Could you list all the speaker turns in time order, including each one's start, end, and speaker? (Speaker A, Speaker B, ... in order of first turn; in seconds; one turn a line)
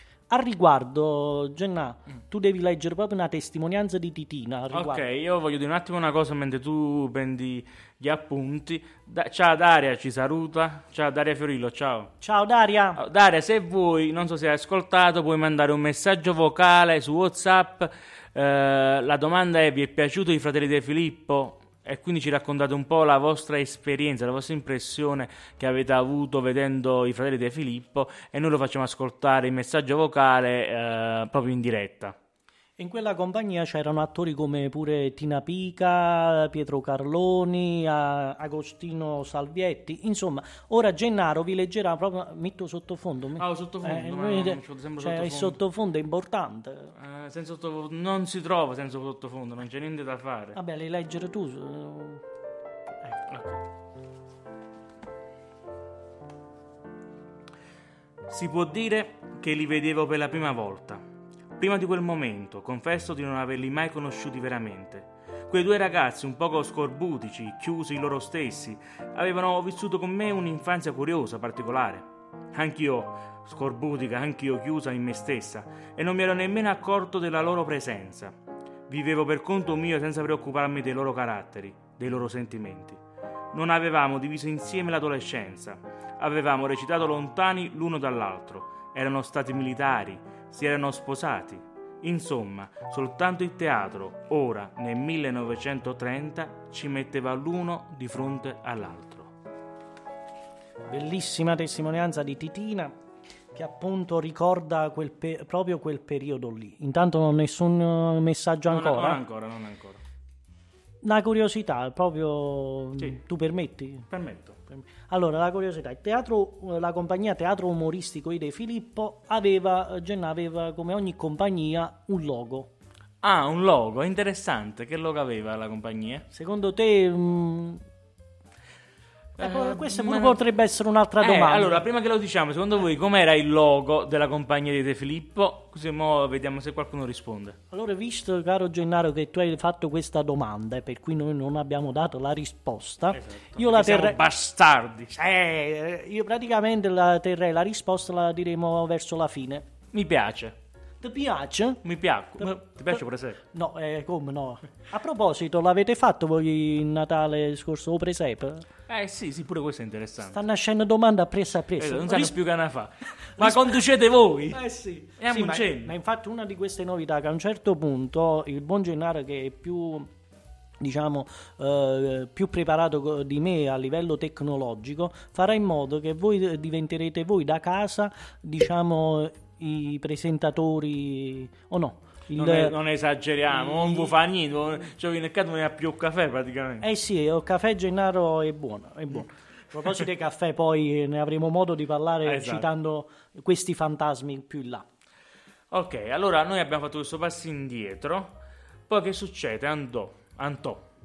Speaker A: 0.3-5.0
Speaker B: 4.7-12.1
Speaker A: 12.2-13.0
Speaker B: 13.0-32.1
Speaker A: 32.8-46.9
Speaker B: 43.4-45.6
Speaker B: 47.0-50.5
Speaker A: 50.5-52.2
Speaker B: 53.3-53.6
Speaker B: 58.3-61.0
Speaker B: 61.6-78.3
Speaker B: 78.9-83.0
Speaker B: 83.5-99.3
Speaker A: 100.9-102.9
Speaker A: 103.5-109.2
Speaker B: 108.7-110.0
Speaker A: 111.0-114.0
Speaker B: 114.1-114.6
Speaker A: 114.7-122.7
Speaker B: 123.2-126.2
Speaker A: 126.3-127.8
Speaker B: 129.4-130.4
Speaker A: 129.4-131.8
Speaker B: 131.2-137.6
Speaker A: 137.7-144.2
Speaker B: 143.1-145.2
Speaker A: 145.2-149.6
Speaker B: 149.9-150.5
Speaker A: 151.0-151.8
Speaker B: 151.8-153.4
Speaker A: 152.4-153.0
Speaker A: 153.5-158.7
Speaker B: 158.9-160.4
Speaker A: 160.2-162.3
Speaker B: 161.8-164.6
Speaker A: 163.4-163.8
Speaker A: 164.5-170.1
Speaker B: 165.2-165.9
Speaker A: 170.8-182.7
Speaker B: 182.3-186.8
Speaker A: 183.5-184.1
Speaker A: 186.8-194.8
Speaker B: 192.2-192.7
Speaker B: 195.7-200.9